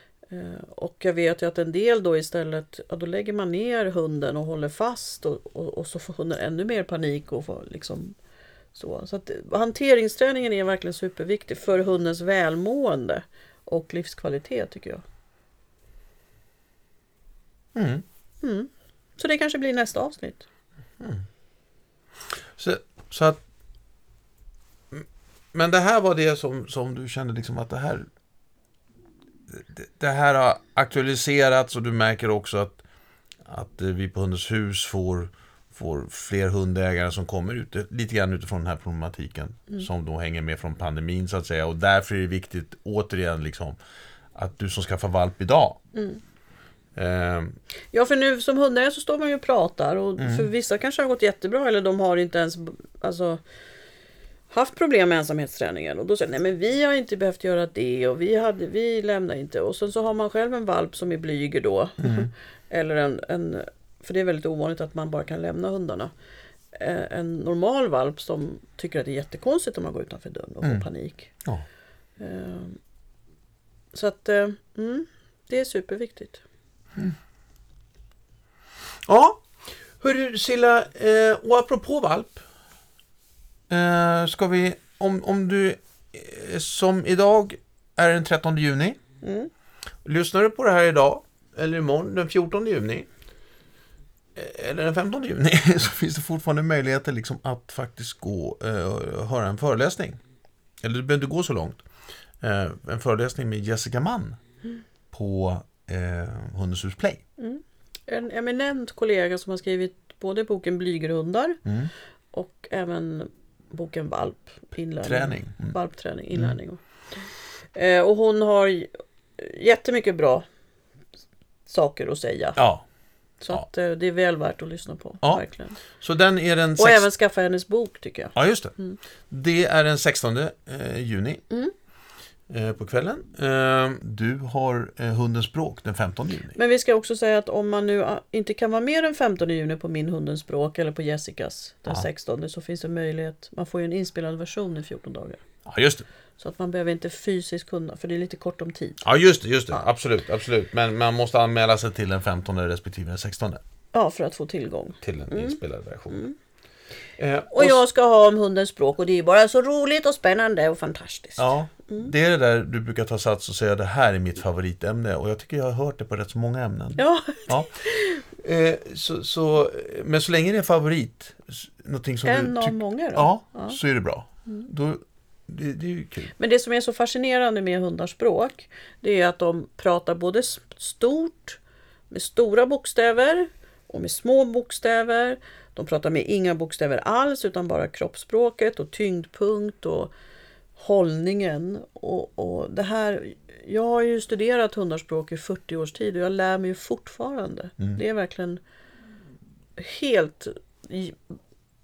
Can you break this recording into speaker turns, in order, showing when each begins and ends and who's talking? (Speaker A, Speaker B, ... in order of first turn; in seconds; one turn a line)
Speaker A: 0.3-8.1
Speaker A: 8.7-15.0
Speaker B: 17.7-18.0
Speaker A: 18.4-20.4
Speaker B: 22.6-23.4
Speaker B: 24.9-28.1
Speaker B: 29.5-32.8
Speaker B: 33.4-43.8
Speaker B: 44.3-45.8
Speaker A: 45.9-46.2
Speaker B: 47.0-47.6
Speaker A: 47.9-53.4
Speaker B: 50.2-50.5
Speaker A: 54.5-66.1
Speaker B: 62.0-62.3
Speaker A: 66.7-71.3
Speaker A: 72.2-72.8
Speaker A: 73.9-76.4
Speaker B: 79.0-79.5
Speaker B: 80.0-82.4
Speaker B: 83.7-89.0
Speaker A: 89.2-89.5
Speaker B: 90.0-93.1
Speaker B: 94.3-100.2
Speaker B: 100.8-101.8
Speaker B: 102.4-104.4
Speaker B: 105.1-107.2
Speaker A: 107.4-111.6
Speaker B: 111.6-111.9
Speaker A: 112.3-116.8
Speaker B: 115.0-115.7
Speaker A: 117.7-120.4
Speaker A: 121.7-122.6
Speaker B: 122.6-122.8
Speaker A: 123.4-125.8
Speaker B: 126.0-127.0
Speaker A: 126.8-129.0
Speaker B: 128.3-128.7
Speaker B: 129.3-131.4
Speaker B: 132.5-136.6
Speaker A: 136.6-145.4
Speaker B: 145.7-146.1
Speaker A: 146.4-149.0
Speaker B: 149.0-153.6
Speaker A: 153.9-155.6
Speaker B: 155.0-156.2
Speaker A: 156.1-156.3
Speaker B: 157.2-157.8
Speaker A: 157.5-162.1
Speaker B: 161.4-167.7
Speaker A: 167.0-168.2
Speaker B: 168.4-176.3
Speaker A: 172.2-173.8
Speaker A: 176.4-181.6
Speaker A: 182.1-190.1
Speaker A: 190.8-198.6
Speaker A: 199.8-201.3